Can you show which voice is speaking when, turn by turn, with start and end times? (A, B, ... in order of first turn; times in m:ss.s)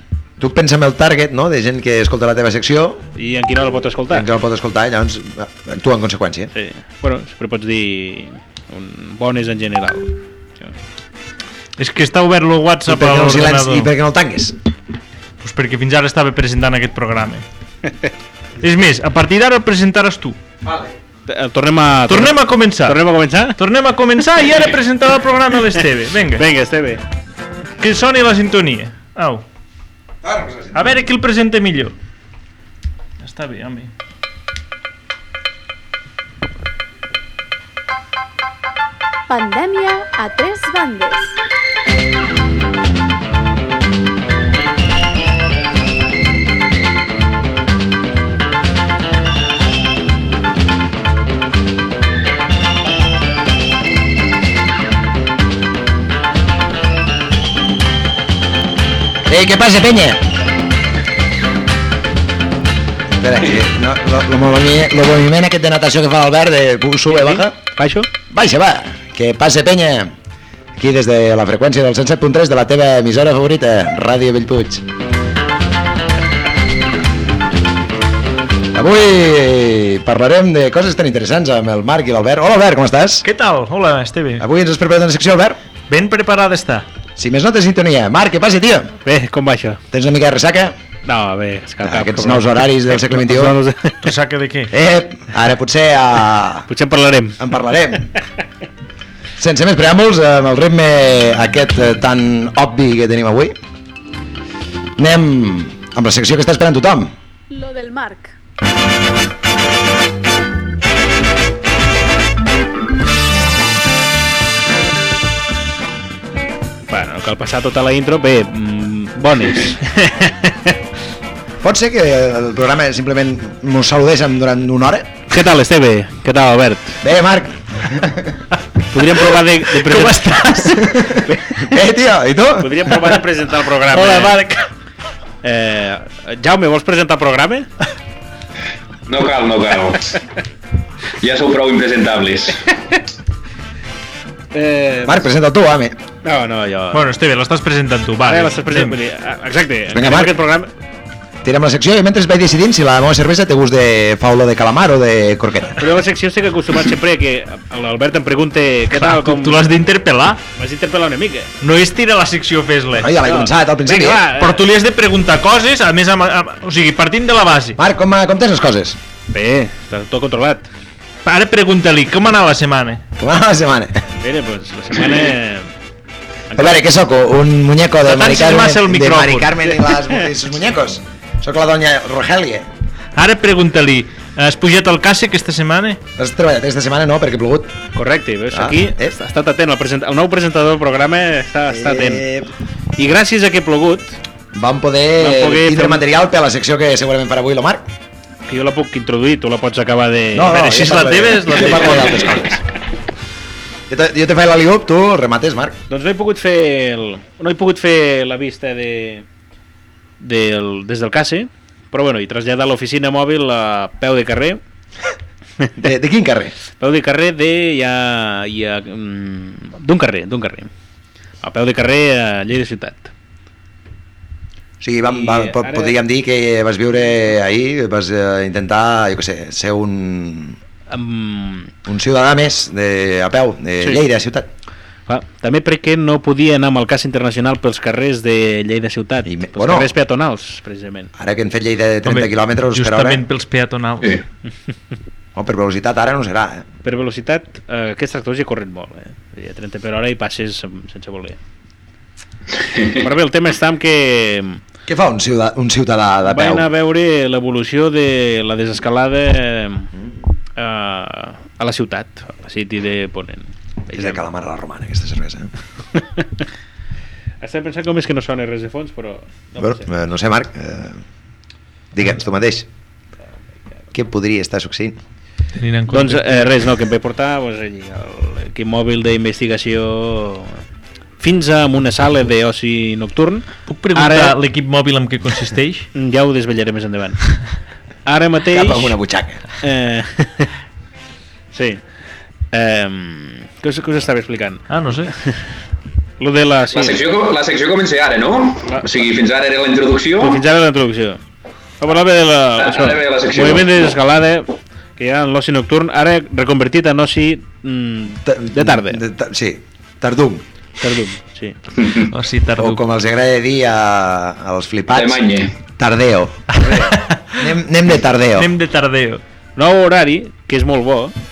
0:00.4-0:03.1 A
0:03.2-0:04.3 B
0:04.1-0:06.5 A
0:06.5-0:10.8 B
0:11.8-0:13.9 C
0:12.9-0:14.6 A
0:15.4-0:17.4 C
0:18.6-0:20.4 C
0:20.6-0:20.9 A
0:21.3-0:23.6 B
0:22.1-0:23.0 C
0:23.6-0:26.4 C
0:26.4-0:27.0 B
0:27.8-0:29.4 C
0:30.2-0:30.8 A
0:30.7-0:32.0 C
0:33.2-0:33.9 C
0:39.3-0:41.4 D
0:59.2-1:00.3 A
1:03.2-1:07.6 A
1:07.1-1:08.1 B
1:08.3-1:10.1 A
1:10.8-1:14.9 A
1:18.7-1:23.3 A
1:23.2-1:24.5 C
1:24.4-1:25.6 A
1:25.9-1:26.9 C
1:27.2-1:28.9 A
1:29.0-1:29.8 B
1:29.9-1:30.8 A
1:31.0-1:34.1 B
1:31.8-1:33.6 A
1:34.0-1:34.7 C
1:34.7-1:36.7 A
1:36.7-1:37.4 B
1:37.4-1:38.1 A
1:39.4-1:43.6 A
1:45.0-1:47.1 A
1:47.5-1:48.3 D
1:56.9-2:00.8 B
2:01.6-2:05.1 A
2:05.3-2:07.0 B
2:07.0-2:08.4 A
2:08.9-2:10.5 B
2:09.7-2:11.2 C
2:10.9-2:13.0 A
2:11.3-2:11.8 B
2:12.6-2:14.4 B
2:13.9-2:14.7 C
2:15.4-2:17.7 B
2:19.1-2:20.2 E
2:21.2-2:22.7 E
2:24.5-2:25.2 B
2:25.0-2:26.0 A
2:26.2-2:27.1 B
2:26.9-2:29.0 C
2:28.3-2:30.7 B
2:29.9-2:30.4 A
2:31.4-2:35.9 A
2:35.8-2:39.7 B
2:38.9-2:40.4 C
2:40.6-2:41.5 B
2:41.6-2:43.1 C
2:43.0-2:44.3 A
2:43.2-2:44.6 B
2:44.4-2:47.8 C
2:47.8-2:49.0 A
2:49.3-2:50.7 B
2:51.3-2:53.0 C
2:53.2-2:54.0 A
2:54.2-2:55.7 B
2:56.5-2:56.8 B
2:56.5-3:02.7 A
2:58.0-2:59.5 C
3:03.2-3:06.0 C
3:06.2-3:07.8 A
3:08.0-3:12.3 B
3:08.5-3:09.2 A
3:11.7-3:12.5 A
3:13.0-3:14.2 B
3:14.5-3:17.9 A
3:15.2-3:16.0 B
3:18.5-3:20.6 B
3:20.3-3:22.6 A
3:20.5-3:22.3 C
3:23.9-3:25.8 A
3:25.9-3:29.2 B
3:30.2-3:34.6 B
3:35.8-3:36.6 A
3:36.8-3:40.7 B
3:41.4-3:43.1 B
3:44.8-3:50.6 A
3:45.1-3:46.0 B
3:50.9-3:51.7 B
3:51.9-3:54.5 A
3:55.1-4:01.1 B
3:59.2-3:59.9 A
4:01.2-4:03.2 A
4:02.0-4:04.2 C
4:05.4-4:06.7 A
4:06.8-4:11.4 B
4:12.6-4:13.0 E
4:12.9-4:14.6 B
4:14.9-4:16.7 A
4:16.2-4:19.9 B
4:20.6-4:24.2 B
4:23.9-4:25.5 A
4:26.0-4:26.4 B
4:27.4-4:29.9 B
4:29.6-4:31.0 A
4:31.9-4:32.7 A
4:33.9-4:35.0 A
4:35.6-4:36.5 C
4:35.9-4:40.6 B
4:41.2-4:44.4 B
4:43.7-4:45.9 C
4:46.0-4:47.4 B
4:48.1-4:49.0 B
4:48.5-4:49.4 A
4:49.6-4:50.5 B
4:51.5-4:51.8 B
4:52.5-4:54.6 B
4:54.7-4:55.1 C
4:55.2-4:55.4 B
4:56.2-4:57.0 B
4:56.7-5:00.4 E
5:00.2-5:01.2 B
5:01.8-5:09.0 B
5:02.6-5:03.7 E
5:08.3-5:10.4 A
5:10.8-5:11.6 B
5:11.8-5:12.1 E
5:12.0-5:12.8 C
5:12.6-5:18.5 A
5:14.9-5:15.6 E
5:16.6-5:17.5 C
5:18.4-5:19.2 C
5:19.6-5:21.2 B